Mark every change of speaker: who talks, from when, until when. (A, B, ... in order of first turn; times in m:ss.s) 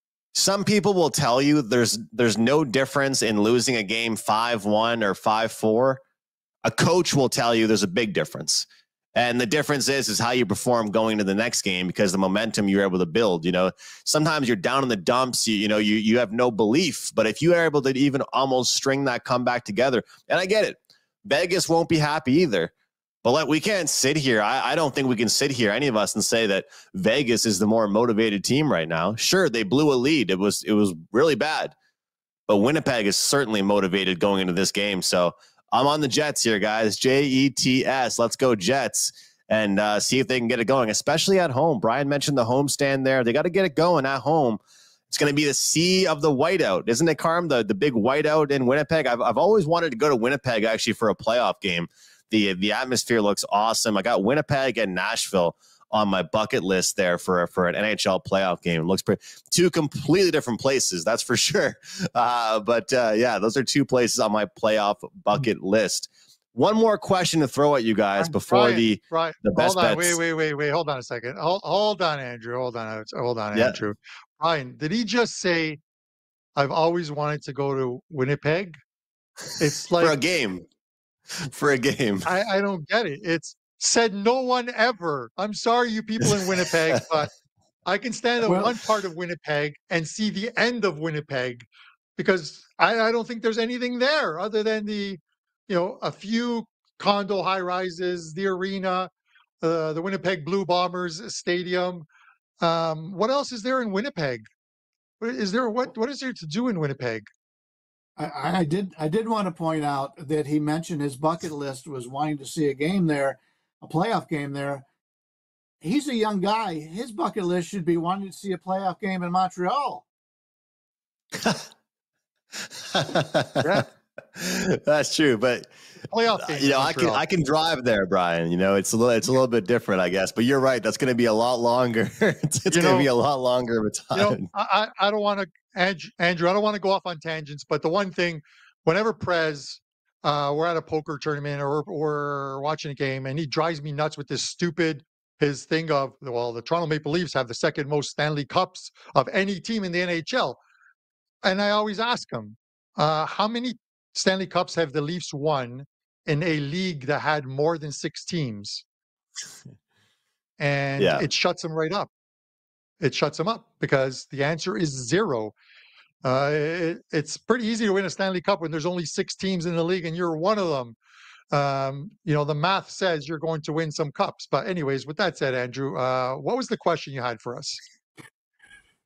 0:00.3-0:06.0 A
0:06.6-0:22.7 A
0:23.2-0:31.7 A
0:32.5-1:10.2 A
1:08.2-1:15.8 B
1:13.5-1:13.8 A
1:16.6-1:18.8 B
1:19.6-1:20.2 B
1:20.0-1:20.7 A
1:21.4-1:22.3 A
1:22.3-1:27.3 B
1:26.3-1:27.0 A
1:27.8-1:31.6 B
1:28.4-1:28.7 C
1:32.2-1:39.1 B
1:39.6-1:42.1 B
1:42.6-1:44.4 B
1:45.2-1:47.2 B
1:48.2-1:54.8 C
1:55.8-2:00.1 C
2:01.4-2:01.6 A
2:02.7-2:05.7 A
2:06.1-2:07.2 B
2:06.4-2:14.4 A
2:12.7-2:13.1 B
2:14.1-2:30.6 B
2:31.4-2:38.8 B
2:40.6-2:42.1 B
2:41.0-2:41.3 A
2:43.0-2:45.5 B
2:46.2-2:51.0 B
2:51.5-2:57.8 B